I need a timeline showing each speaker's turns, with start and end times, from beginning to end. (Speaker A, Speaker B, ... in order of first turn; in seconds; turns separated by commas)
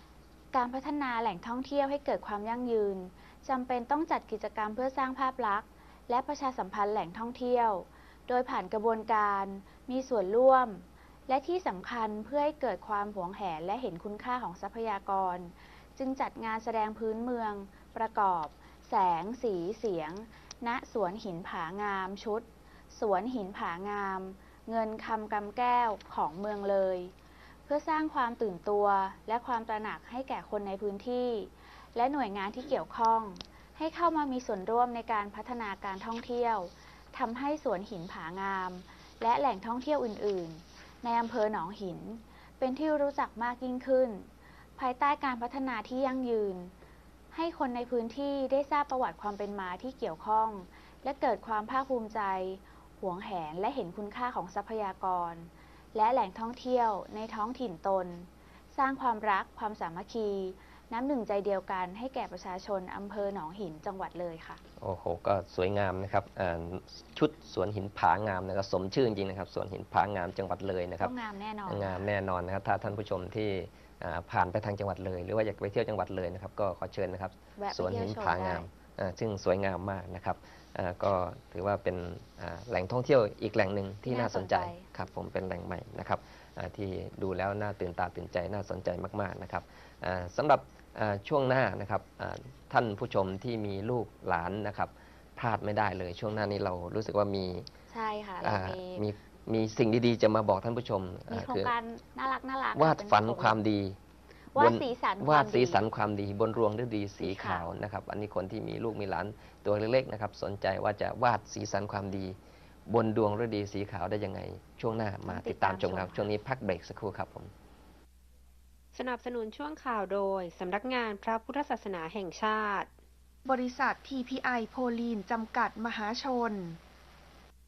Speaker A: 0.5-27.1, Speaker A: 27.7-46.7, Speaker A: 47.3-64.6, Speaker B: 64.8-71.1, Speaker A: 71.0-72.0, Speaker B: 71.7-97.7, Speaker A: 77.6-78.7, Speaker A: 84.1-84.9, Speaker A: 97.9-99.0, Speaker B: 98.4-101.7, Speaker A: 101.3-103.6, Speaker B: 102.8-104.0, Speaker A: 104.5-105.8, Speaker B: 104.6-112.4, Speaker A: 107.2-107.7, Speaker B: 112.9-117.5, Speaker A: 115.3-116.3, Speaker C: 118.9-122.9, Speaker D: 123.5-126.8